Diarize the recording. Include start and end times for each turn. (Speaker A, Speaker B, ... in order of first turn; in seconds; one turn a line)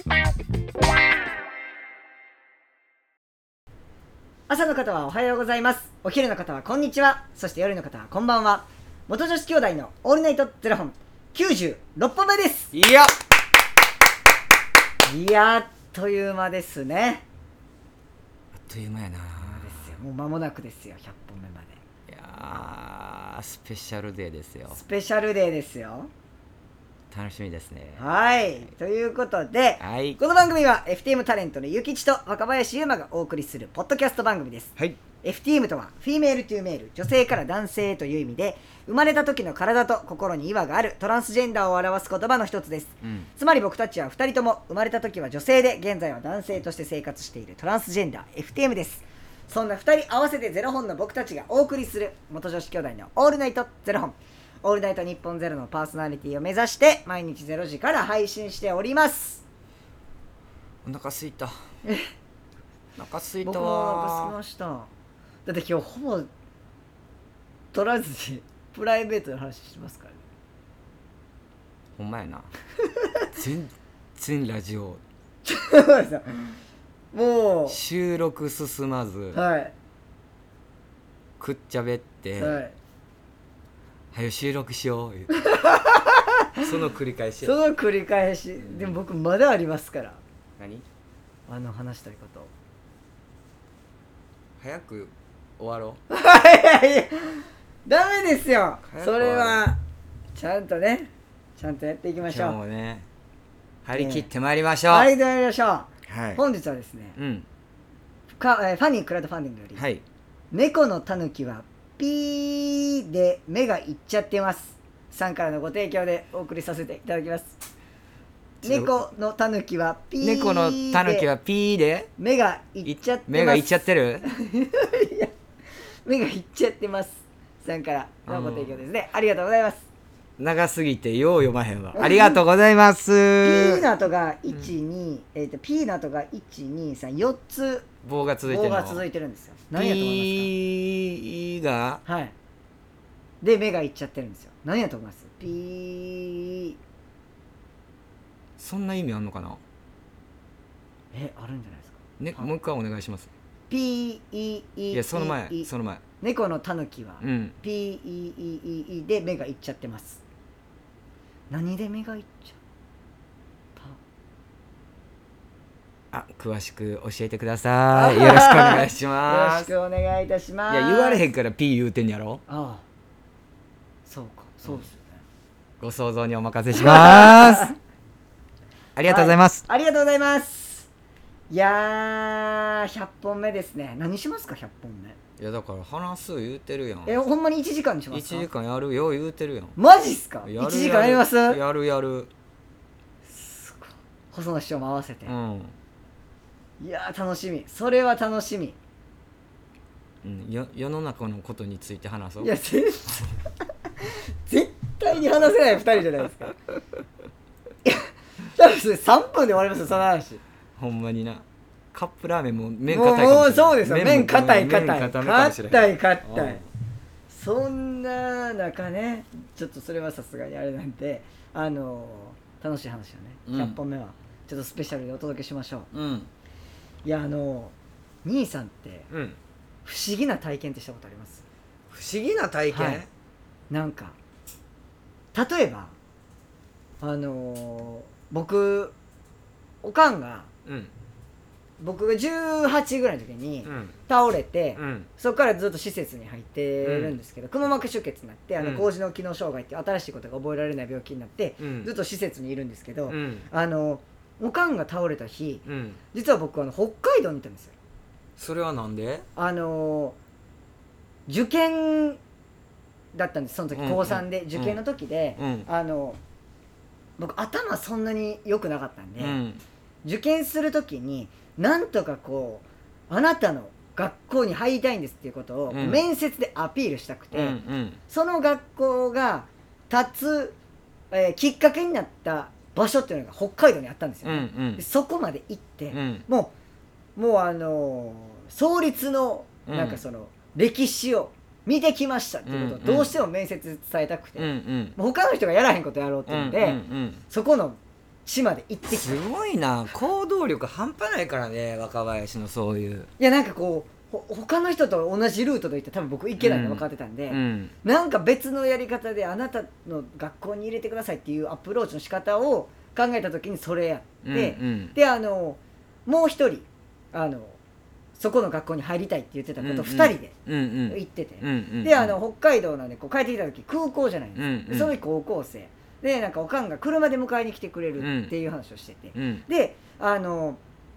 Speaker A: 4.5-12.7
Speaker B: 12.7-13.1
Speaker A: 15.1-17.2
Speaker B: 18.6-19.9
Speaker A: 19.4-21.8
Speaker B: 22.1-24.8
Speaker A: 24.7-26.1
Speaker B: 27.1-28.0
Speaker A: 28.0-59.4
Speaker B: 29.8-30.2
Speaker B: 60.8-61.5
Speaker B: 63.0-64.3
Speaker A: 63.4-64.9
Speaker A: 65.5-66.3
Speaker A: 67.7-70.2
Speaker B: 72.0-72.5
Speaker B: 73.3-75.0
Speaker A: 75.4-76.6
Speaker A: 77.1-77.8
Speaker B: 77.7-79.4
Speaker A: 79.3-79.7
Speaker B: 81.4-82.6
Speaker A: 82.3-82.7
Speaker B: 84.1-85.3
Speaker A: 85.4-86.7
Speaker B: 86.6-87.5
Speaker A: 87.4-90.2
Speaker B: 90.6-90.8
Speaker A: 91.5-92.5
Speaker B: 94.6-96.0
Speaker A: 96.1-99.8
Speaker B: 98.8-99.6
Speaker A: 100.3-102.6
Speaker B: 102.2-103.1
Speaker B: 103.8-105.1
Speaker A: 103.9-104.3
Speaker A: 104.9-107.2
Speaker B: 106.1-106.4
Speaker B: 107.2-107.5
Speaker A: 108.4-109.8
Speaker B: 109.7-110.0
Speaker A: 110.5-117.6
Speaker B: 118.6-119.0
Speaker A: 118.6-121.3
Speaker B: 120.2-122.1
Speaker A: 122.2-125.3
Speaker B: 122.8-124.2
Speaker A: 126.0-129.8
Speaker B: 128.3-128.8
Speaker B: 130.4-133.8
Speaker A: 131.9-132.4
Speaker A: 133.4-137.8
Speaker B: 138.0-139.0
Speaker A: 138.4-140.5
Speaker B: 139.7-142.0
Speaker A: 142.0-142.3
Speaker A: 143.4-146.8
Speaker B: 148.6-149.6
Speaker A: 151.1-152.5
Speaker B: 152.2-153.3
Speaker A: 153.7-155.7
Speaker B: 154.9-156.0
Speaker A: 156.2-160.2
Speaker B: 157.2-157.6
Speaker A: 161.5-162.6
Speaker B: 166.1-169.7
Speaker A: 167.9-171.2
Speaker B: 170.7-172.4
Speaker A: 172.5-172.8
Speaker A: 174.1-175.2
Speaker B: 175.8-177.7
Speaker A: 176.7-177.7
Speaker B: 178.9-179.6
Speaker A: 179.1-180.9
Speaker A: 181.5-185.2
Speaker B: 185.4-187.2
Speaker A: 187.0-188.5
Speaker B: 188.1-189.8
Speaker A: 189.8-191.6
Speaker B: 190.4-192.3
Speaker A: 193.2-195.3
Speaker B: 195.2-195.7
Speaker A: 196.8-198.8
Speaker B: 200.2-202.5
Speaker A: 202.4-203.3
Speaker A: 204.0-206.5
Speaker A: 207.8-210.4
Speaker B: 210.8-216.6
Speaker A: 212.9-216.6
Speaker A: 217.3-225.9
Speaker B: 223.5-223.8
Speaker B: 225.9-226.3
Speaker A: 227.0-227.7
Speaker A: 228.2-229.1
Speaker B: 229.1-229.4
Speaker A: 229.8-231.4
Speaker B: 231.9-233.1
Speaker A: 232.7-233.0
Speaker A: 233.7-234.2
Speaker A: 235.3-235.9
Speaker A: 237.0-238.9
Speaker A: 239.8-240.5
Speaker B: 240.7-240.9
Speaker A: 241.8-257.7
Speaker B: 243.7-243.9
Speaker B: 244.8-245.1
Speaker B: 246.8-247.1
Speaker B: 248.6-248.9
Speaker B: 251.6-251.9
Speaker B: 253.1-253.5
Speaker B: 255.7-256.0
Speaker B: 258.4-259.2
Speaker A: 259.4-260.2
Speaker A: 261.3-262.2
Speaker A: 263.1-266.2
Speaker B: 263.7-264.8
Speaker B: 265.4-265.7
Speaker A: 267.2-269.4
Speaker B: 269.2-269.6
Speaker A: 270.0-280.5
Speaker B: 275.7-276.0
Speaker B: 277.3-278.0
Speaker A: 281.1-286.5
Speaker B: 284.2-284.8
Speaker B: 285.9-286.2
Speaker A: 287.1-299.2
Speaker B: 289.7-290.0
Speaker B: 292.4-293.1
Speaker B: 294.4-295.0
Speaker B: 296.3-297.2
Speaker B: 298.9-303.1
Speaker A: 303.2-317.6
Speaker B: 306.4-307.7
Speaker B: 314.2-314.9
Speaker A: 318.2-320.3
Speaker B: 319.6-322.2
Speaker A: 320.9-330.6
Speaker B: 324.4-324.9
Speaker B: 328.0-328.3
Speaker B: 329.1-329.4